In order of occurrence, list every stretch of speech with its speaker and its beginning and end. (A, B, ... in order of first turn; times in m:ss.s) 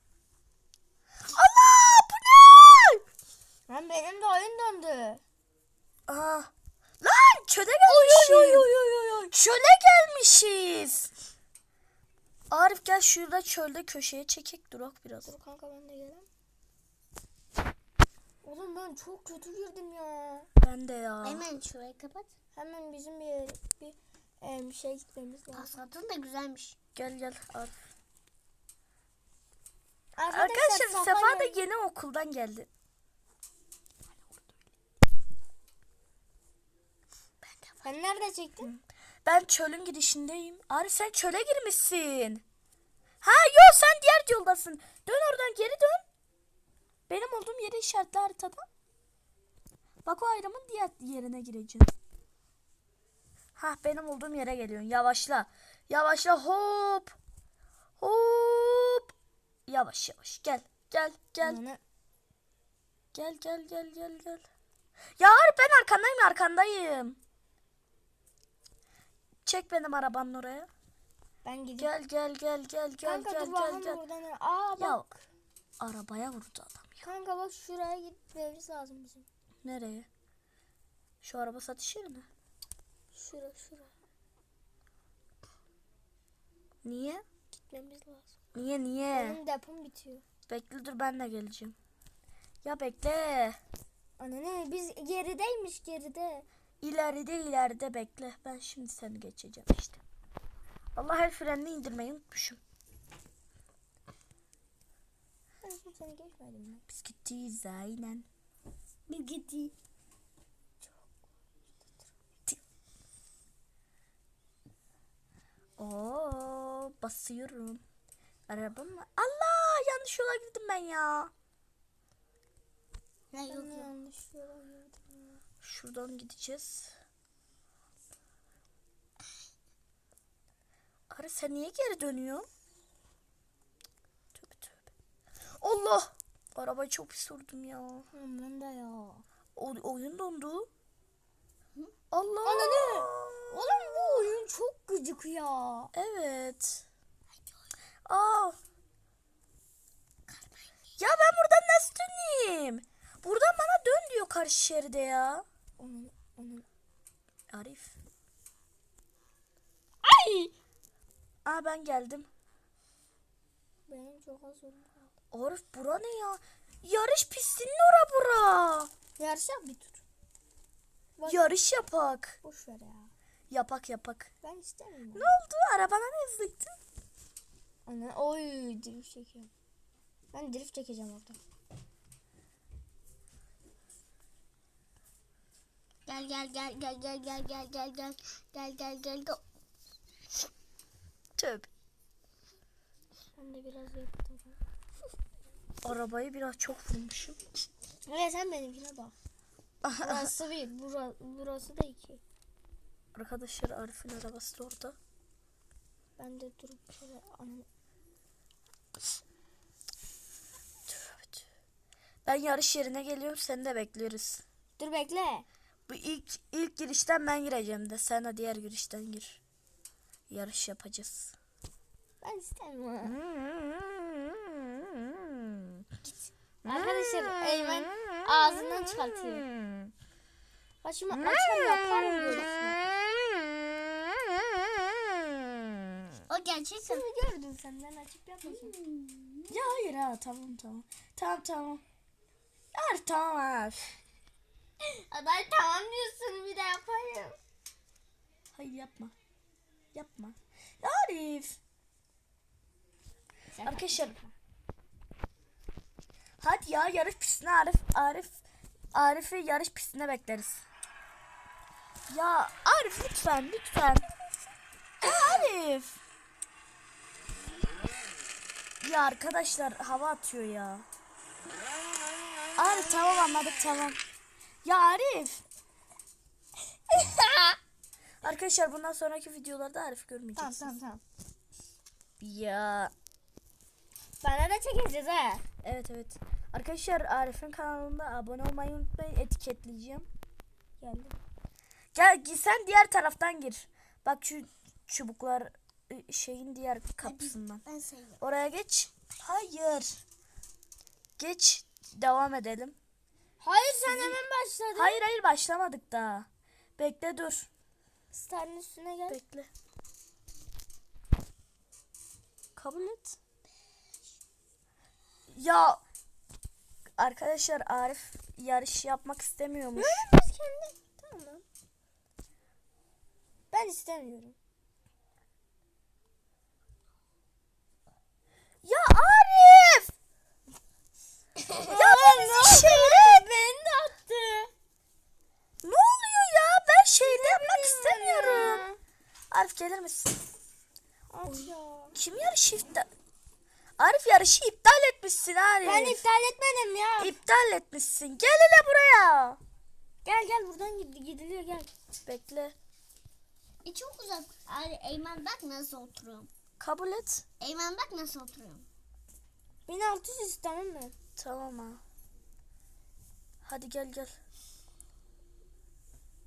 0:01.2-0:03.0 A
0:03.7-0:05.2 B
0:06.1-0:06.5 A
0:07.0-0:08.7 A
0:07.9-0:09.3 B
0:09.3-0:11.1 A
0:12.5-0:15.3 A
0:15.2-0:16.3 B
0:18.4-0:20.5 B
0:20.6-0:21.5 A
0:21.2-0:22.3 C
0:22.5-0:25.7 B
0:25.5-0:26.8 C
0:26.9-0:27.8 A
0:30.1-0:31.6 B
0:30.3-0:32.7 A
0:37.8-0:38.7 B
0:38.6-0:42.4 A
0:43.2-0:46.0 A
0:47.1-0:48.6 A
0:50.0-0:51.9 A
0:53.6-0:57.2 A
0:58.0-0:59.1 A
0:59.7-1:01.6 A
1:01.4-1:01.8 B
1:03.1-1:04.4 A
1:05.2-1:07.2 A
1:09.4-1:10.7 A
1:11.4-1:11.9 B
1:11.8-1:14.0 A
1:13.0-1:15.2 B
1:14.8-1:15.0 A
1:15.8-1:17.0 A
1:17.0-1:19.2 B
1:19.6-1:20.1 A
1:21.2-1:22.3 A
1:23.1-1:23.9 B
1:26.8-1:27.2 A
1:27.5-1:28.3 B
1:28.5-1:29.4 A
1:29.1-1:30.2 B
1:30.5-1:31.8 A
1:32.6-1:33.6 A
1:34.2-1:36.4 B
1:36.8-1:40.0 A
1:41.0-1:42.6 A
1:45.6-1:46.8 B
1:46.9-1:48.3 A
1:49.1-1:49.7 C
1:50.8-1:51.1 B
1:55.8-1:57.8 A
1:58.5-2:01.3 A
2:03.3-2:03.9 C
2:03.5-2:05.4 B
2:05.6-2:06.9 A
2:11.1-2:12.5 A
2:14.3-2:14.9 A
2:15.6-2:18.1 A
2:18.1-2:19.2 B
2:19.5-2:20.7 A
2:22.1-2:24.3 A
2:22.4-2:25.9 B
2:25.9-2:26.8 A
2:28.0-2:28.6 A
2:30.3-2:30.8 C
2:31.0-2:35.4 A
2:35.8-2:36.6 B
2:37.5-2:38.0 A
2:40.0-2:40.5 B
2:41.4-2:42.3 A
2:43.9-2:45.1 B
2:45.3-2:48.9 A
2:49.2-2:50.0 B
2:51.2-2:51.5 B
2:51.2-2:52.4 A
2:52.4-2:53.1 B
2:53.5-2:54.3 A
2:54.4-2:55.3 B
2:55.1-2:56.8 A
2:57.8-2:59.5 B
3:00.3-3:01.4 B
3:06.1-3:09.4 C
3:11.4-3:11.7 A
3:13.4-3:14.6 B
3:15.8-3:17.4 A
3:18.1-3:19.1 B
3:19.8-3:20.3 A
3:20.0-3:22.2 B
3:23.1-3:25.0 A
3:26.2-3:27.6 B
3:30.9-3:31.4 A
3:32.2-3:34.4 A
3:34.8-3:35.4 B
3:35.9-3:39.4 A
3:40.3-3:41.3 A
3:42.2-3:43.2 B
3:43.2-3:44.0 A
3:46.0-3:46.3 C
3:46.6-3:49.5 B
3:50.8-3:52.8 B
3:51.2-3:52.2 A
3:56.3-3:57.0 C
3:56.9-3:58.7 B
3:58.4-3:59.6 C
3:59.5-4:01.8 A
4:02.7-4:03.9 A
4:04.8-4:07.4 B
4:08.5-4:09.1 A
4:09.9-4:11.6 A
4:13.6-4:14.3 B
4:13.6-4:14.2 A
4:16.4-4:18.4 A
4:18.9-4:20.6 A
4:22.1-4:24.1 A
4:25.0-4:26.0 A
4:28.8-4:30.8 A
4:32.6-4:34.0 A
4:34.6-4:35.4 A
4:36.9-4:37.6 B
4:38.2-4:40.7 A
4:40.4-4:41.0 B
4:42.2-4:42.9 A
4:44.2-4:45.4 B
4:45.6-4:50.1 A
4:50.8-4:51.2 B
4:51.9-4:57.6 A
4:57.0-4:58.2 C
4:58.2-5:00.0 A
5:01.2-5:02.8 A
5:03.4-5:05.0 B
5:03.9-5:04.2 A
5:04.8-5:07.5 A
5:08.1-5:09.2 B
5:09.1-5:09.5 A
5:12.6-5:13.2 A
5:15.3-5:15.8 A
5:17.0-5:20.1 A
5:19.8-5:21.4 B
5:23.5-5:24.4 B
5:28.6-5:29.9 A
5:31.6-5:34.5 B
5:31.7-5:33.2 A
5:35.6-5:38.6 A
5:37.0-5:38.8 B
5:39.3-5:40.3 A
5:41.1-5:41.9 B
5:41.3-5:42.9 A
5:43.8-5:46.0 A
5:45.6-5:47.1 B
5:47.0-5:49.4 A
5:50.0-5:51.7 B
5:52.0-5:52.5 A
5:53.6-5:56.3 C
5:56.6-5:57.2 A
5:57.4-5:58.6 C
5:59.7-6:00.9 B
6:01.2-6:01.8 A
6:03.4-6:04.1 A